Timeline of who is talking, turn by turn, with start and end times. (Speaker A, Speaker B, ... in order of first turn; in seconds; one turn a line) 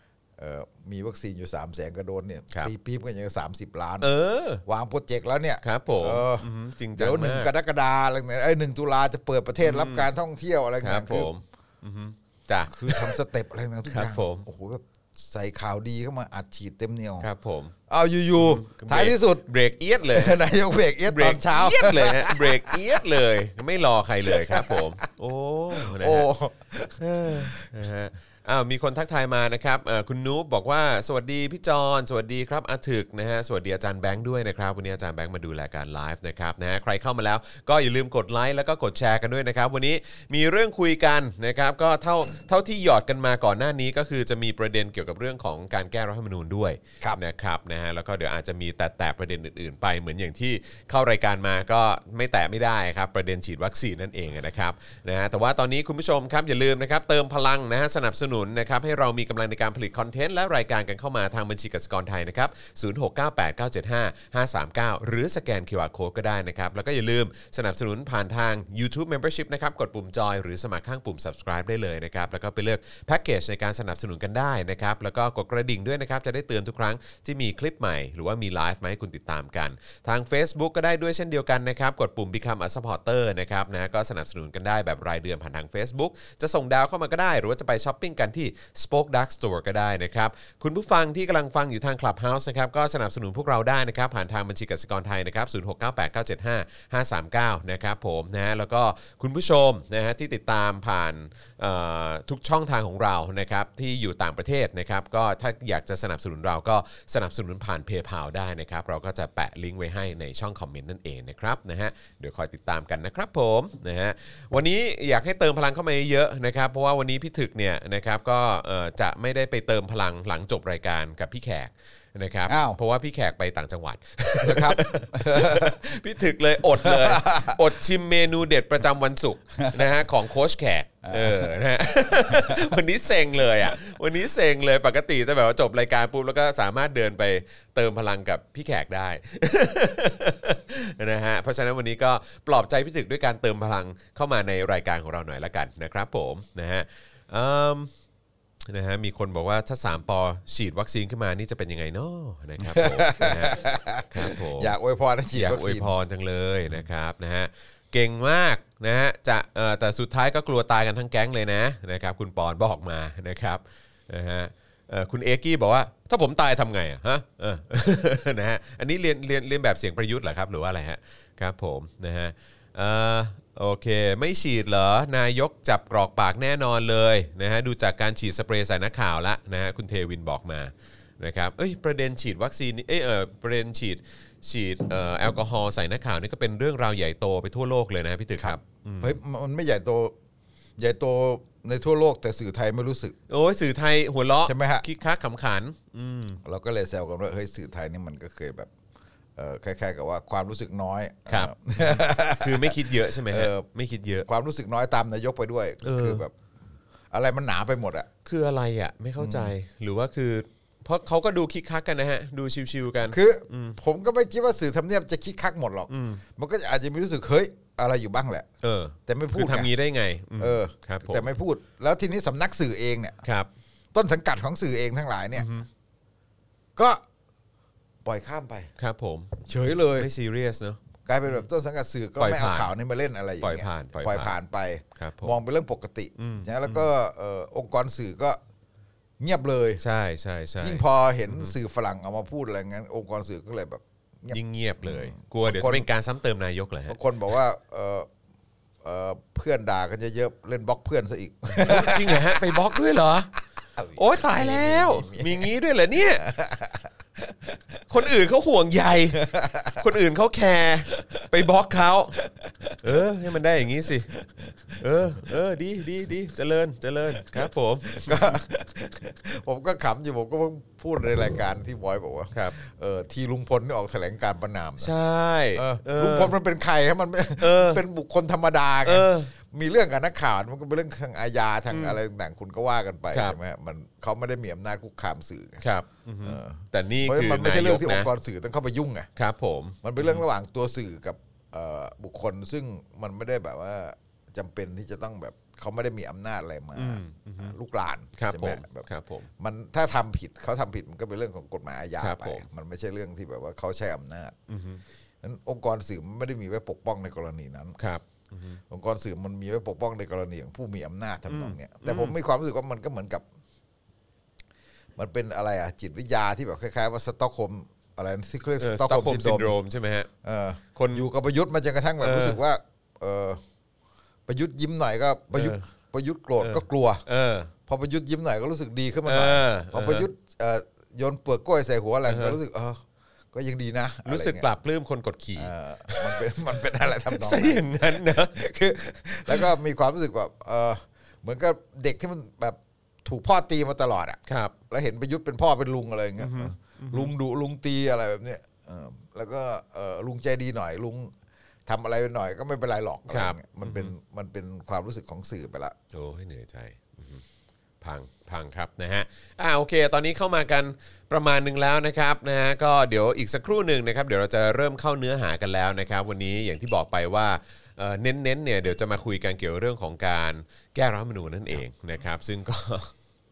Speaker A: 0.4-4.1
Speaker B: 4.0-4.6
Speaker A: 4.7-11.3
Speaker B: 5.6-7.5
Speaker B: 9.6-10.1
Speaker B: 10.8-13.1
Speaker A: 12.7-17.3
Speaker B: 13.9-14.4
Speaker B: 17.2-17.7
Speaker A: 17.9-19.5
Speaker B: 18.4-20.4
Speaker A: 20.0-23.0
Speaker B: 21.1-26.3
Speaker A: 24.3-24.9
Speaker A: 25.7-27.6
Speaker B: 26.9-147.9
Speaker A: 122.5-122.8
Speaker A: 124.4-126.0
Speaker A: 126.8-127.6
Speaker A: 131.0-131.5
Speaker A: 132.3-132.8
Speaker B: 148.7-154.7
Speaker A: 152.6-155.9
Speaker B: 155.3-189.2
Speaker A: 188.4-190.1
Speaker A: 190.8-193.2
Speaker B: 193.3-196.4
Speaker A: 194.4-194.8
Speaker A: 196.4-198.7
Speaker A: 199.3-203.7
Speaker B: 201.3-204.2
Speaker A: 204.2-206.3
Speaker B: 205.8-206.2
Speaker A: 207.1-208.1
Speaker B: 208.2-213.8
Speaker A: 209.2-209.5
Speaker A: 213.1-218.5
Speaker B: 215.9-216.2
Speaker B: 218.6-221.3
Speaker A: 219.1-219.7
Speaker A: 220.4-223.2
Speaker B: 223.2-223.5
Speaker A: 223.9-225.5
Speaker B: 225.3-225.7
Speaker A: 226.8-227.0
Speaker A: 228.0-228.7
Speaker B: 228.8-229.4
Speaker A: 229.4-230.1
Speaker B: 229.9-231.4
Speaker A: 231.0-238.4
Speaker B: 232.2-232.7
Speaker B: 233.4-234.3
Speaker B: 234.9-235.3
Speaker B: 236.2-236.9
Speaker A: 239.2-239.8
Speaker B: 239.8-241.5
Speaker A: 240.6-245.9
Speaker B: 244.3-247.0
Speaker A: 246.9-248.1
Speaker A: 248.8-252.7
Speaker B: 251.5-253.3
Speaker A: 253.8-255.5
Speaker B: 253.9-256.2
Speaker A: 256.2-257.3
Speaker B: 257.9-262.2
Speaker A: 259.1-259.9
Speaker A: 260.9-261.3
Speaker A: 262.2-263.0
Speaker B: 262.8-264.1
Speaker A: 264.1-265.2
Speaker B: 264.8-268.4
Speaker A: 267.9-274.9
Speaker B: 274.8-276.3
Speaker A: 275.5-285.6
Speaker B: 277.4-277.8
Speaker B: 278.8-279.3
Speaker B: 281.7-282.0
Speaker B: 283.1-283.4
Speaker B: 285.6-288.1
Speaker A: 286.2-289.1
Speaker B: 289.1-290.2
Speaker A: 289.8-298.9
Speaker B: 296.8-297.5
Speaker B: 298.1-299.3
Speaker A: 299.4-304.4
Speaker B: 302.0-302.4
Speaker B: 304.5-304.8
Speaker A: 305.2-307.8
Speaker B: 307.8-308.6
Speaker A: 308.7-313.2
Speaker B: 311.3-312.1
Speaker A: 314.9-319.5
Speaker B: 318.6-320.1
Speaker A: 320.2-323.4
Speaker B: 320.7-321.1
Speaker B: 322.0-322.4
Speaker A: 324.3-327.0
Speaker B: 325.3-325.7
Speaker B: 326.4-327.5
Speaker A: 327.7-332.8
Speaker B: 329.1-330.1
Speaker B: 332.1-332.4
Speaker A: 333.3-334.4
Speaker B: 334.1-338.4
Speaker A: 335.4-351.1
Speaker B: 344.3-344.5
Speaker B: 346.2-347.1
Speaker A: 351.6-355.7
Speaker B: 353.1-353.9
Speaker B: 355.9-357.2
Speaker B: 357.8-372.9